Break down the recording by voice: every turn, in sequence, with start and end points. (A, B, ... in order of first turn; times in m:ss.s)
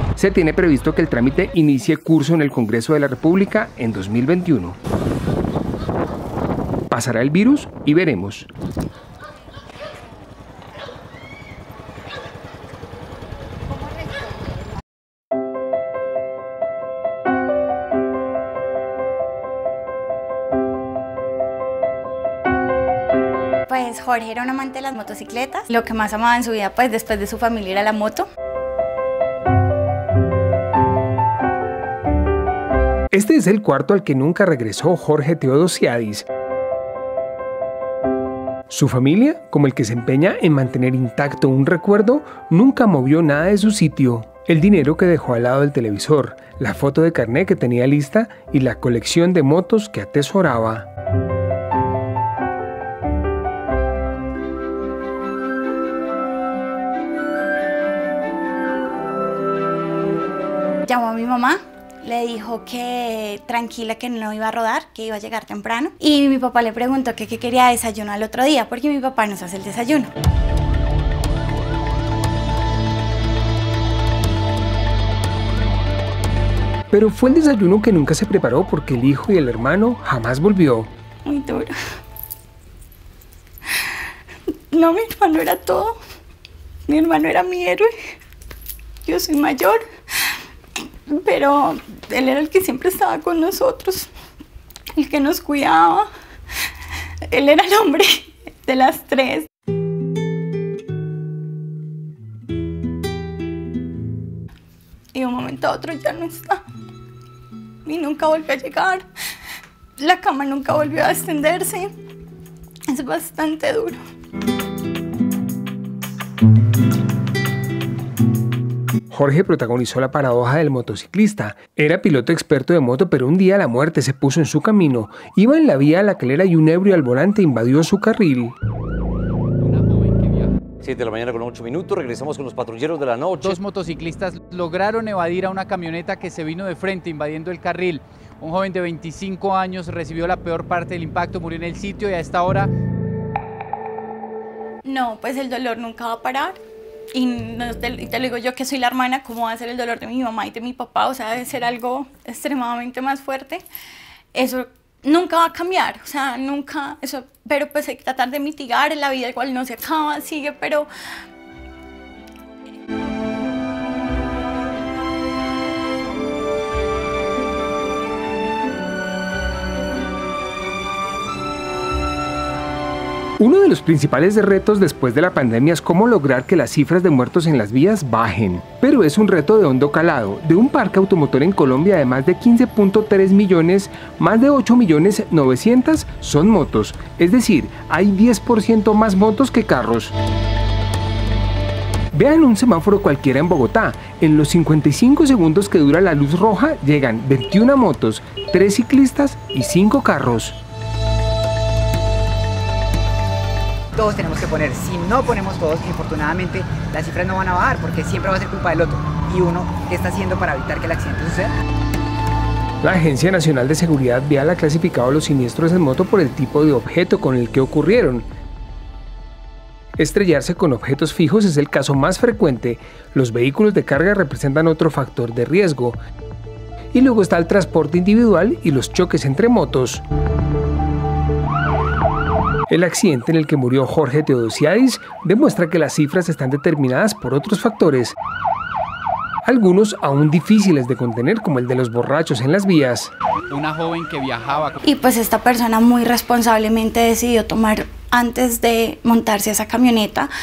0:00.2-0:04.8 A
0:06.9-0:08.5 A
0:23.7-0:28.2 B
0:33.1-0:36.3 A
0:38.7-0:50.9 A
1:00.8-1:10.1 B
1:16.9-1:20.9 A
1:21.2-1:21.7 B
1:24.7-1:26.0 B
1:26.9-1:27.9 B
1:29.0-1:29.8 B
1:31.1-1:34.1 B
1:35.0-1:36.1 B
1:37.3-1:39.5 B
1:45.1-1:46.6 B
1:47.8-1:49.0 B
1:50.0-1:51.9 B
1:52.9-1:54.0 B
1:59.1-2:08.6 A
2:09.6-2:10.5 C
2:10.8-2:13.6 D
2:13.4-2:22.7 C
2:24.8-2:26.6 B
2:27.1-2:33.6 B
2:34.3-2:40.9 B
2:53.4-3:10.1 A
3:12.1-3:20.6 A
3:23.9-3:31.5 E
3:32.8-3:38.3 A
3:40.0-3:46.0 A
3:46.9-3:50.0 A
3:52.7-3:58.2 A
3:59.4-4:03.1 A
4:03.5-4:04.8 C
4:04.8-4:10.3 B